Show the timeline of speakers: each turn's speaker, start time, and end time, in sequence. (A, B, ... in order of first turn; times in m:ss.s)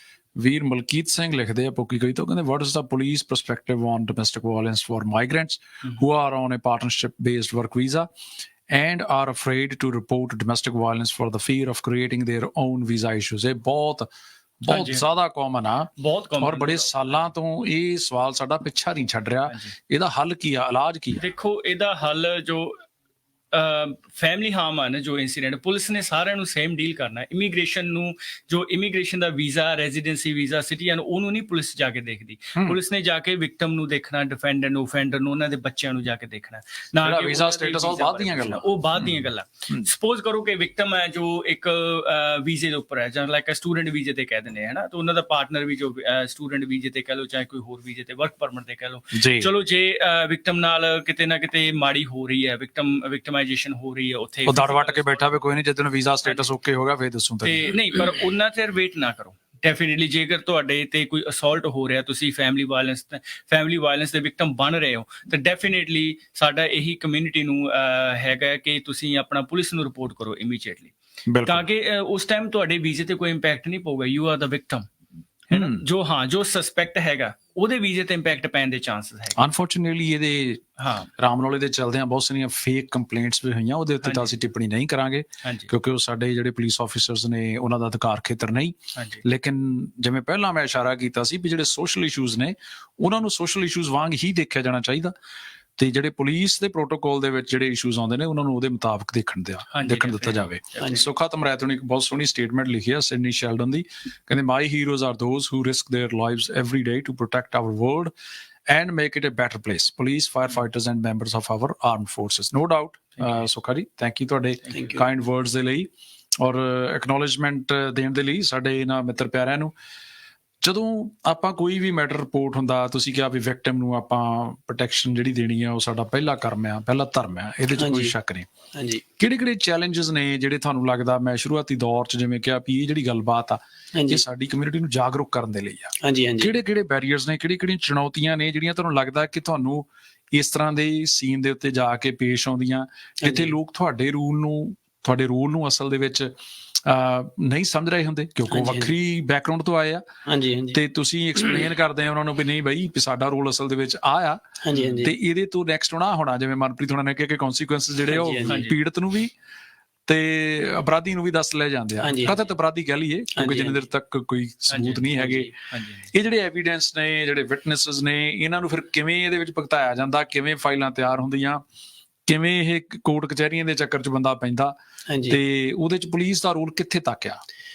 0:00.4-0:08.1 A
0:08.7-0:14.1 A
0:14.6-0:21.2 A
0:14.7-0:15.0 B
0:16.0-0:17.0 B
0:19.5-0:19.7 B
0:21.2-0:22.8 B
0:23.5-0:55.4 B
0:37.0-0:39.9 A
0:49.1-0:49.5 A
0:54.5-0:58.0 A
0:57.4-1:10.9 B
1:11.3-1:11.7 A
1:11.4-1:14.9 B
1:15.5-1:19.4 B
1:15.5-1:15.8 A
1:19.4-1:20.6 A
1:20.8-1:21.1 B
1:21.2-1:35.1 A
1:24.0-1:24.4 B
1:25.4-1:25.7 B
1:29.0-1:29.2 B
1:35.8-1:48.1 A
1:39.7-1:41.0 B
1:48.7-1:59.7 A
1:53.2-1:53.4 B
1:54.7-1:55.0 C
2:00.6-2:08.5 A
2:07.8-2:08.1 C
2:08.7-2:09.0 C
2:09.2-2:26.3 A
2:13.9-2:14.2 C
2:16.0-2:16.6 C
2:23.2-2:23.5 C
2:26.8-2:30.0 A
2:28.5-2:28.9 C
2:30.3-2:30.8 C
2:30.7-2:34.4 A
2:34.6-2:35.1 C
2:34.7-2:35.0 B
2:35.0-2:39.3 A
2:38.1-2:38.6 C
2:38.5-2:38.7 B
2:40.1-2:45.6 A
2:42.0-2:42.4 C
2:43.4-2:43.8 C
2:44.7-2:45.1 B
2:45.2-2:45.5 C
2:45.7-2:46.1 B
2:46.1-2:51.6 A
2:52.3-2:54.8 A
2:55.1-2:55.4 C
2:55.3-2:57.4 A